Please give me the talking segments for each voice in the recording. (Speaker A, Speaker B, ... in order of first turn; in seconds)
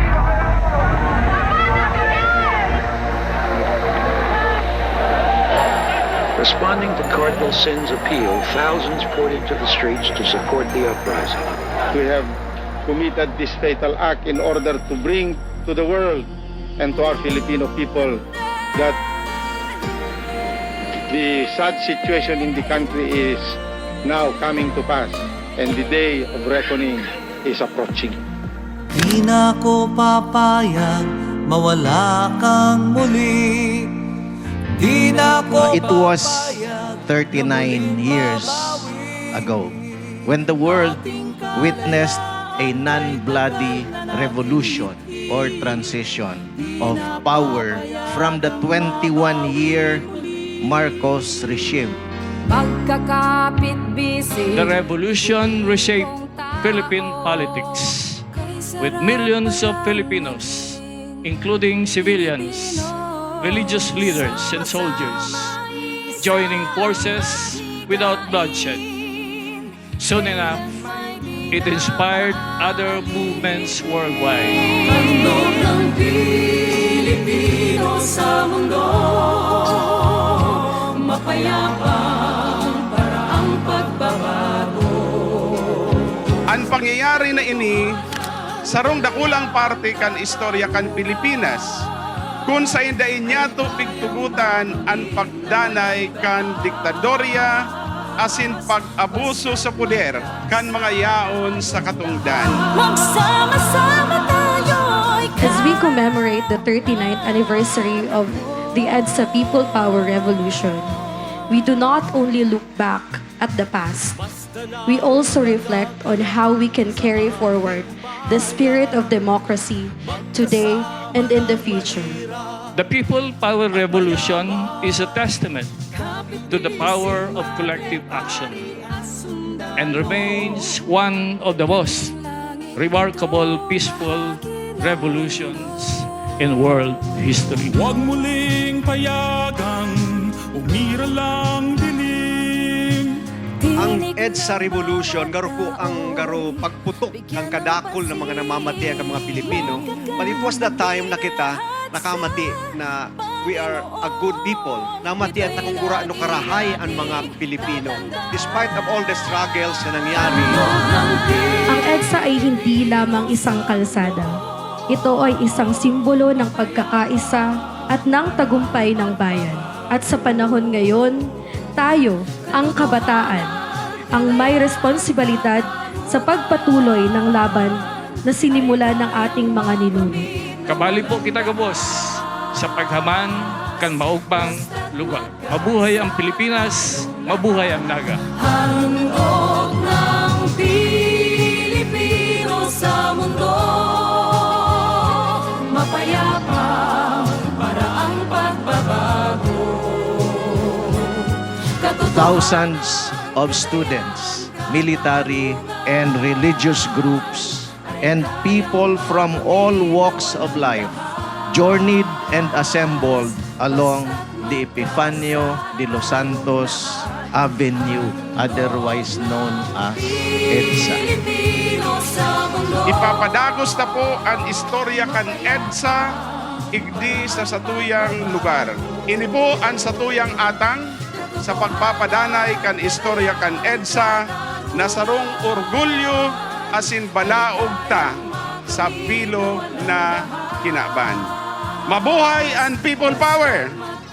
Speaker A: 6.4-11.5
Speaker B: 11.9-12.3, 12.8-16.3, 16.8-18.2, 21.1-28.2
Speaker C: 29.0-34.1, 34.8-36.1
Speaker D: 35.5-50.1, 50.6-52.0, 202.0-221.1
Speaker E: 52.6-54.5, 75.5-75.9, 77.6-79.8, 81.2-81.9, 82.5-82.8, 102.8-105.3, 188.8-199.8
Speaker F: 54.5-58.2, 58.8-65.6, 66.2-68.9, 70.0-70.7, 71.5-75.4, 122.8-125.7, 126.5-128.7, 129.8-132.2, 132.7-137.8, 180.7-188.2
Speaker G: 86.5-87.9, 88.7-91.7, 92.5-97.5, 98.2-102.7, 222.9-226.0, 226.7-230.9, 231.4-234.2, 234.8-238.1, 238.7-241.3, 241.9-243.8
Speaker H: 105.4-111.0, 111.5-114.2, 114.8-122.3, 161.7-164.4, 164.9-173.5, 174.1-180.3
Speaker I: 137.8-143.2
Speaker J: 143.8-160.7